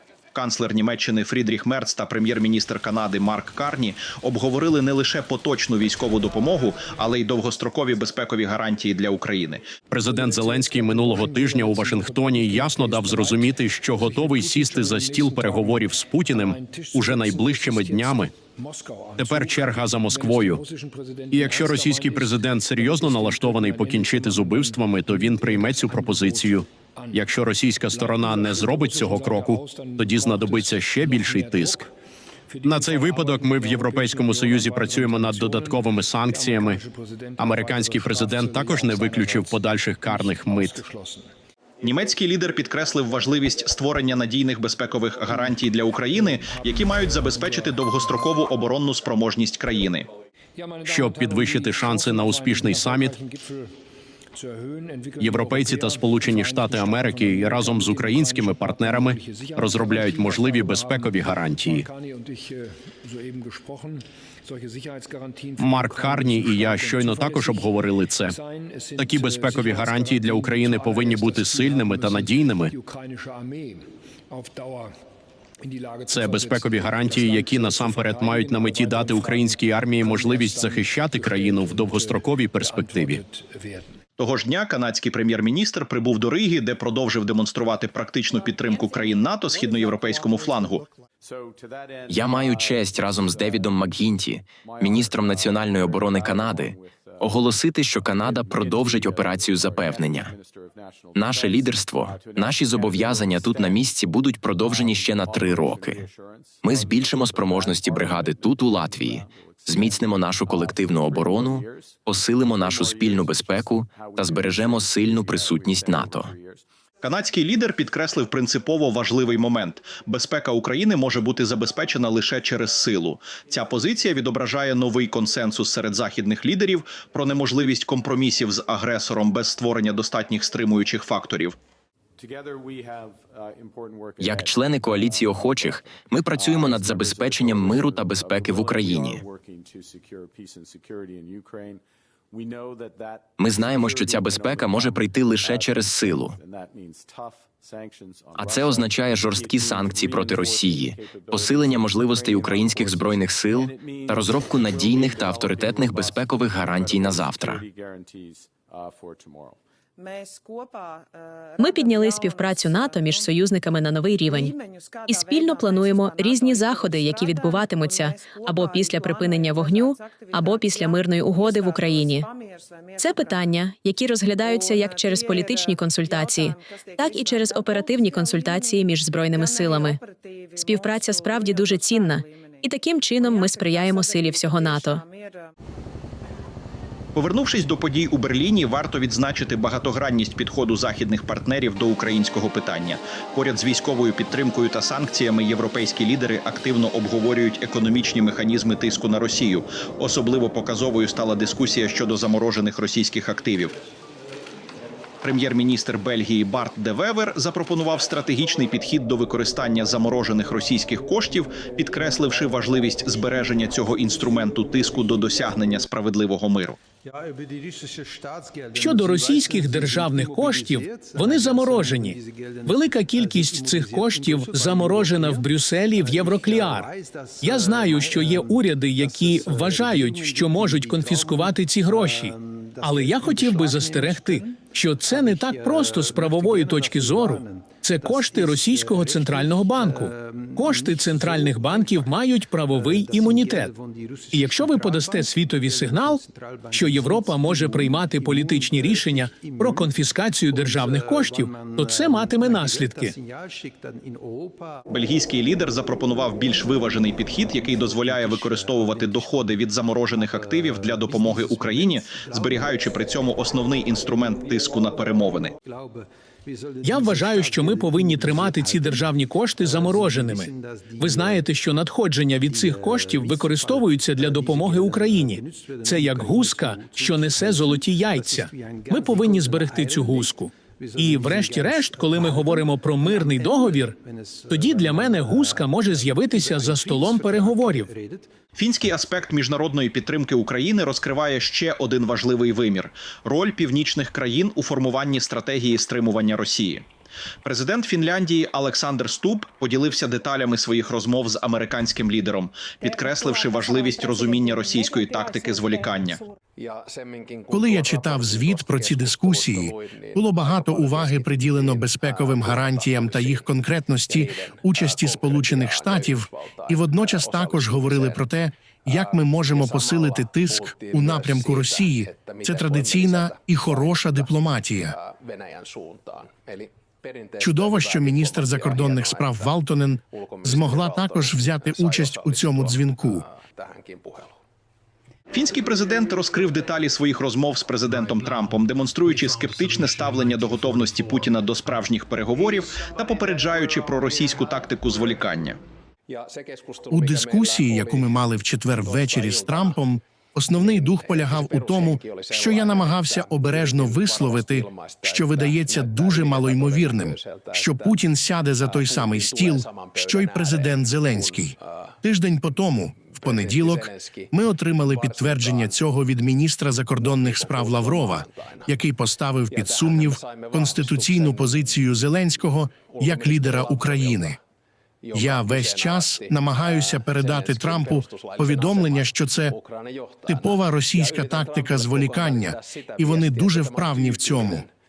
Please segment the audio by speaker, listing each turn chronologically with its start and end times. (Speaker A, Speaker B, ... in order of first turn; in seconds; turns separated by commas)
Speaker A: 0.3-9.7, Speaker B: 9.9-18.3, Speaker B: 19.2-20.6, Speaker B: 21.3-31.9, Speaker B: 32.6-36.8, Speaker B: 37.4-40.9, Speaker A: 41.8-50.1, Speaker B: 50.8-53.2, Speaker B: 55.2-61.9, Speaker B: 65.6-68.3, Speaker B: 69.0-72.7, Speaker B: 76.1-83.2, Speaker A: 84.2-90.9, Speaker C: 92.1-100.4, Speaker C: 101.2-106.1, Speaker C: 106.6-116.3, Speaker A: 117.0-131.6, Speaker C: 134.2-139.2, Speaker C: 143.4-146.4, Speaker C: 148.3-157.7, Speaker D: 161.6-172.3, Speaker D: 173.0-180.0, Speaker D: 180.6-185.0, Speaker A: 187.2-203.8, Speaker A: 205.2-216.8, Speaker E: 218.7-226.9, Speaker E: 227.4-243.7, Speaker E: 244.3-253.2, Speaker A: 254.9-265.6, Speaker E: 266.8-284.0, Speaker E: 284.5-287.9, Speaker A: 288.6-296.8, Speaker A: 297.4-306.2, Speaker F: 307.5-325.0, Speaker F: 327.4-333.3, Speaker A: 335.3-345.6, Speaker F: 346.9-374.4, Speaker F: 375.1-379.6, Speaker F: 380.3-384.7